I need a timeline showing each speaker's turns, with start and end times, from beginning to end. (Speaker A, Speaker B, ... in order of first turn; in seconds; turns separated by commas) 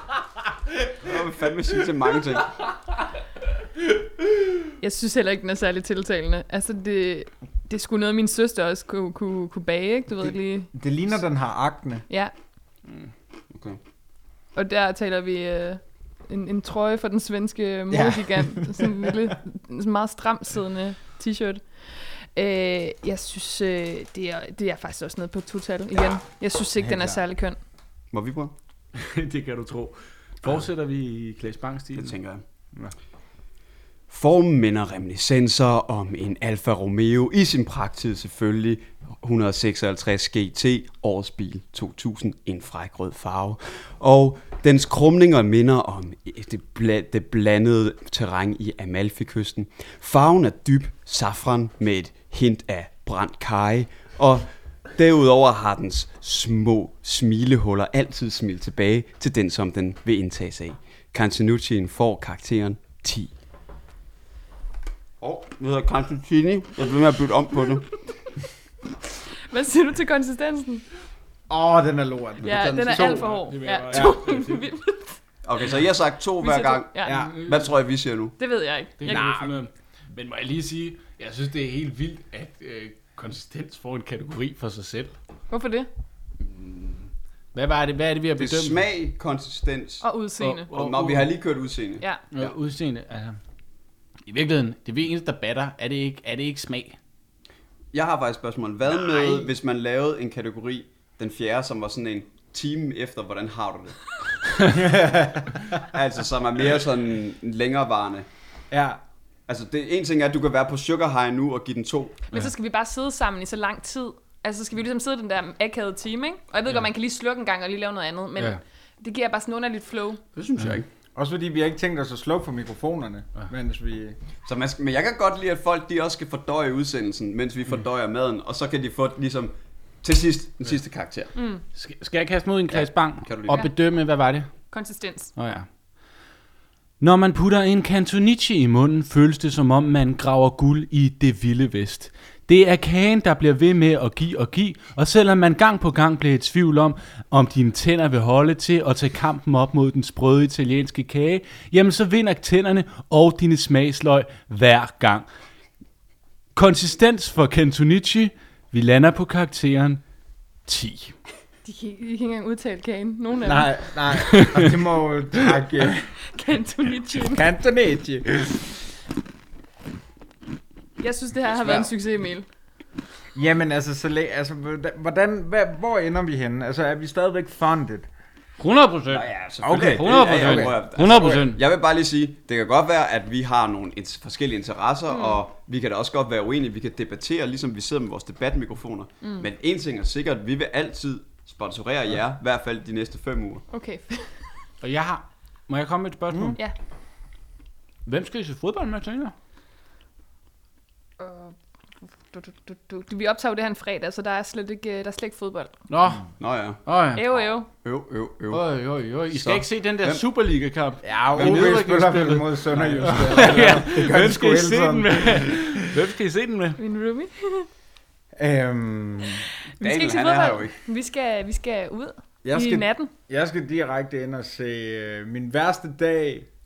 Speaker A: 0.9-2.6, Speaker B: 4.8-10.7, Speaker C: 10.7-12.0, Speaker A: 13.5-13.8, Speaker B: 14.6-27.6, Speaker C: 17.9-19.2, Speaker C: 26.8-27.2, Speaker A: 28.1-28.5, Speaker D: 28.9-32.2, Speaker A: 31.9-32.4, Speaker A: 34.1-63.3, Speaker A: 65.2-68.0, Speaker B: 69.4-70.8, Speaker C: 71.5-74.2, Speaker B: 72.4-75.2, Speaker A: 72.4-73.2, Speaker D: 73.3-74.6, Speaker A: 75.4-78.3, Speaker B: 76.4-77.3, Speaker C: 77.0-77.4, Speaker B: 78.4-79.2, Speaker D: 79.0-85.1, Speaker C: 79.0-79.6, Speaker B: 85.5-85.9, Speaker D: 87.5-88.8, Speaker A: 88.4-90.0, Speaker B: 90.0-90.7, Speaker D: 90.4-91.3, Speaker A: 90.7-92.5, Speaker D: 92.3-93.4, Speaker D: 94.2-97.0, Speaker A: 97.9-104.2, Speaker C: 104.7-105.6, Speaker A: 105.7-108.3, Speaker C: 108.7-109.0, Speaker A: 109.5-112.2, Speaker B: 112.3-120.2, Speaker A: 120.3-120.9, Speaker C: 121.1-124.2, Speaker A: 124.4-131.3, Speaker B: 131.3-131.6, Speaker D: 131.7-134.5, Speaker A: 132.7-133.7, Speaker B: 133.5-133.7, Speaker B: 134.7-135.3, Speaker D: 135.3-135.7, Speaker D: 137.0-155.3, Speaker D: 156.5-160.0, Speaker D: 160.7-161.2, Speaker B: 161.6-163.7, Speaker C: 163.4-166.1, Speaker D: 164.2-164.6, Speaker B: 166.2-167.4, Speaker C: 167.2-168.7, Speaker B: 171.0-172.4, Speaker A: 171.4-171.9, Speaker C: 173.3-178.1, Speaker D: 178.6-181.6, Speaker A: 179.1-193.6, Speaker C: 179.6-181.4, Speaker B: 185.1-185.4, Speaker B: 193.7-194.5, Speaker D: 194.8-196.6, Speaker D: 198.0-199.3, Speaker B: 201.2-205.7, Speaker D: 205.9-207.2, Speaker A: 206.4-206.8, Speaker B: 207.1-207.7, Speaker A: 207.8-208.6, Speaker D: 208.5-216.8, Speaker A: 209.3-210.2, Speaker C: 211.0-215.8, Speaker A: 211.4-211.8, Speaker A: 212.7-214.2, Speaker B: 216.8-217.7, Speaker C: 218.3-219.5, Speaker B: 219.8-223.1, Speaker A: 219.8-220.8, Speaker C: 222.4-226.5